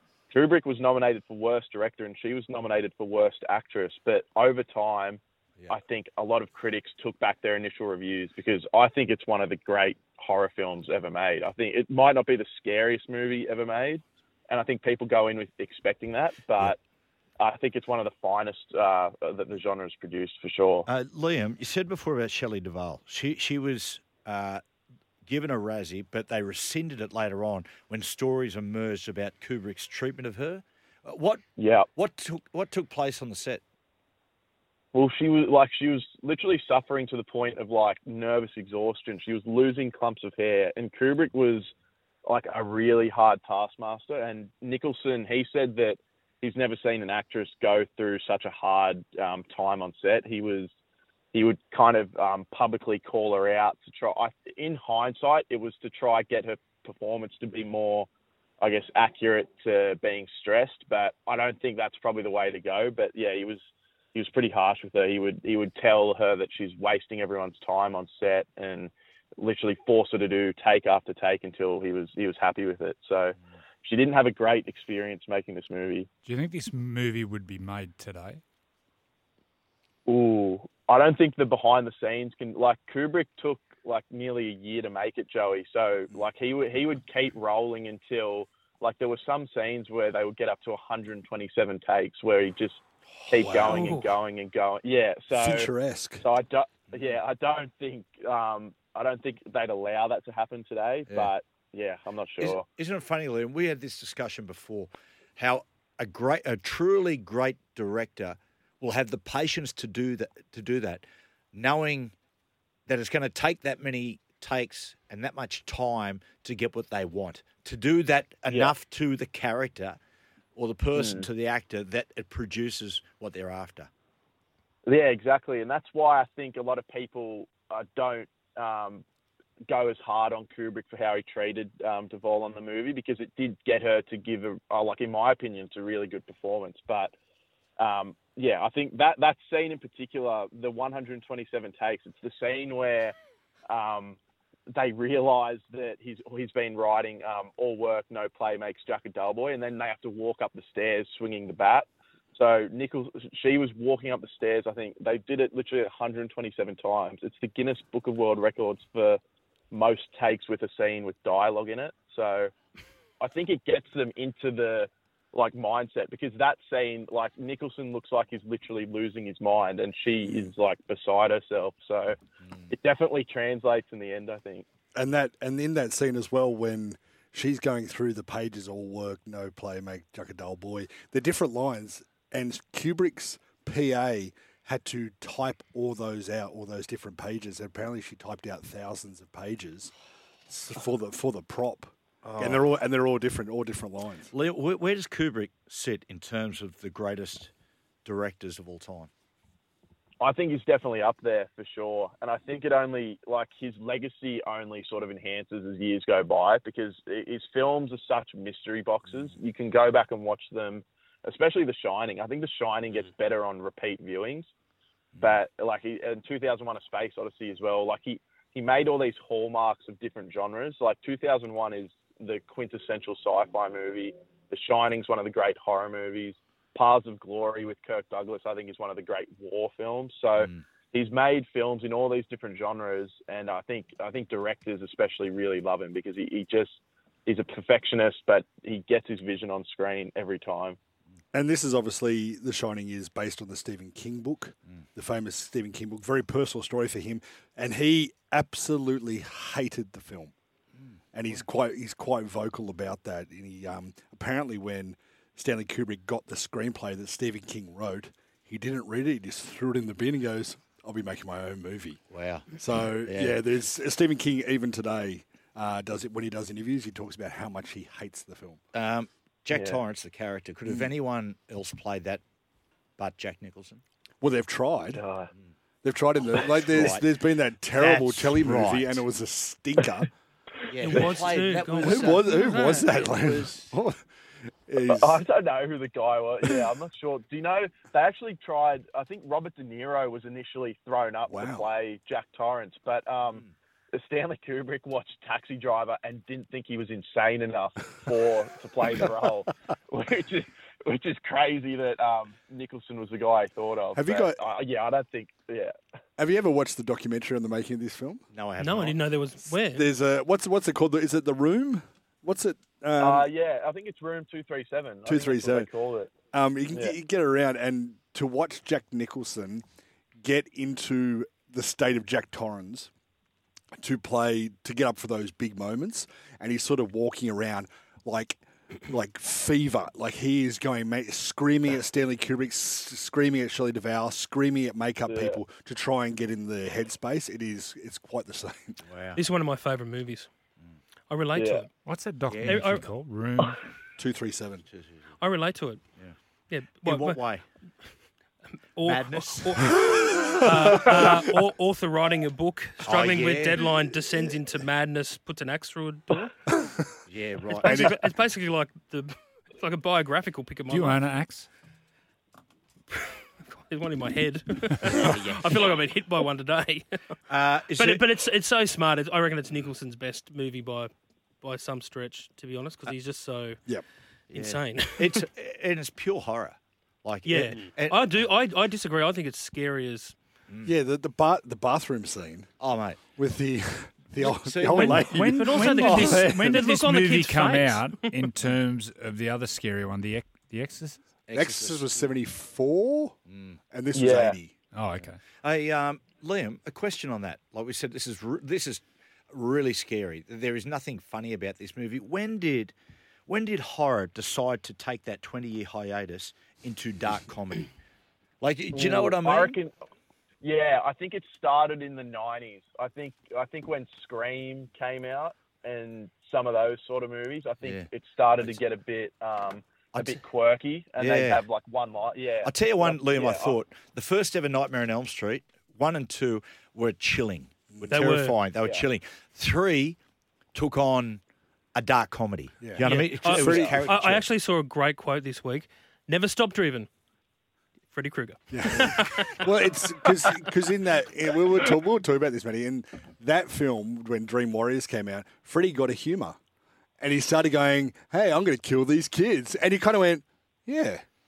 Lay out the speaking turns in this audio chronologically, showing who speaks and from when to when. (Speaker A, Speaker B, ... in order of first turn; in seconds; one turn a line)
Speaker A: 0.3-16.8
Speaker A: 17.4-20.9
Speaker B: 20.9-24.6
Speaker B: 25.2-31.4
Speaker A: 31.6-31.9
Speaker B: 31.9-33.6
Speaker A: 34.9-41.7
Speaker A: 42.2-50.7
Speaker A: 51.3-58.1
Speaker A: 58.6-63.6
Speaker A: 64.2-76.1
Speaker C: 76.2-78.4
Speaker A: 80.1-102.7
Speaker D: 93.2-93.8
Speaker E: 93.7-94.2
Speaker D: 95.3-96.2
Speaker B: 102.4-112.1
Speaker B: 112.9-120.0
Speaker A: 118.5-118.8
Speaker B: 120.5-123.9
Speaker A: 121.0-121.3
Speaker A: 124.8-129.0
Speaker A: 129.7-137.1
Speaker A: 137.8-143.2
Speaker A: 143.7-144.2
Speaker A: 144.7-159.2
Speaker A: 159.7-162.5
Speaker A: 163.2-172.2
Speaker A: 172.7-174.7
Speaker D: 174.9-189.9
Speaker D: 190.5-194.3
Speaker B: 192.4-192.7
Speaker B: 194.3-197.5
Speaker B: 198.0-199.1
Speaker A: 200.2-214.5
Speaker A: 215.2-240.8
Speaker D: 241.3-250.3
Speaker D: 251.1-262.0
Speaker B: 262.1-263.4
Speaker D: 262.5-268.6
Speaker B: 268.7-272.2
Speaker A: 269.5-269.8
Speaker D: 270.6-270.9
Speaker B: 273.0-273.8
Speaker D: 274.2-275.0
Speaker A: 274.9-275.3
Speaker D: 275.8-280.1
Speaker A: 276.3-277.0
Speaker B: 276.7-279.1
Speaker B: 280.7-283.7
Speaker E: 280.8-283.1
Speaker A: 280.9-281.2
Speaker D: 281.8-284.0
Speaker D: 284.7-285.2
Speaker A: 284.8-305.7
Speaker D: 291.3-291.7
Speaker D: 303.9-304.4
Speaker D: 306.2-308.2
Speaker B: 308.3-309.0
Speaker E: 308.6-309.9
Speaker D: 309.4-313.3
Speaker A: 313.0-316.1
Speaker D: 315.1-315.7
Speaker D: 316.3-319.6
Speaker A: 316.7-317.0
Speaker D: 320.2-322.9
Speaker D: 323.8-338.8
Speaker A: 335.1-335.4
Speaker B: 338.9-339.2
Speaker E: 339.1-340.3
Speaker E: 341.1-341.7
Speaker A: 341.4-341.6
Speaker C: 341.9-343.6
Speaker B: 342.3-342.6
Speaker E: 342.4-342.9
Speaker D: 344.0-344.6
Speaker B: 344.7-345.0
Speaker E: 345.2-345.8
Speaker E: 346.5-347.4
Speaker B: 346.8-347.4
Speaker E: 348.8-356.5
Speaker B: 348.9-349.7
Speaker B: 352.8-353.6
Speaker B: 357.1-357.9
Speaker E: 357.6-361.1
Speaker D: 357.7-358.0
Speaker C: 360.7-361.5
Speaker E: 362.9-367.0
Speaker B: 365.0-365.4
Speaker B: 367.3-368.0
Speaker E: 367.7-373.8
Speaker E: 374.3-375.3
Speaker B: 374.3-378.2
Speaker E: 377.2-380.1
Speaker D: 380.6-382.5
Speaker B: 382.6-383.1
Speaker D: 383.1-386.1
Speaker B: 384.2-384.8
Speaker E: 384.7-388.2
Speaker C: 384.7-391.0
Speaker B: 391.3-391.9
Speaker D: 391.3-393.2
Speaker B: 393.3-393.6
Speaker D: 393.7-394.5
Speaker A: 393.9-394.4
Speaker C: 394.7-395.2
Speaker B: 395.0-402.7
Speaker B: 403.3-407.7
Speaker B: 408.4-409.6
Speaker A: 408.7-409.7
Speaker A: 410.4-423.6
Speaker B: 417.6-417.9
Speaker B: 419.9-420.2
Speaker B: 421.0-421.4
Speaker B: 422.4-430.0
Speaker E: 427.9-428.4
Speaker A: 428.6-428.9
Speaker B: 430.5-431.2
Speaker B: 431.8-434.3
Speaker D: 432.6-433.9
Speaker E: 432.8-436.9
Speaker E: 437.9-439.6
Speaker D: 438.5-446.4
Speaker E: 440.2-440.4
Speaker D: 447.0-451.0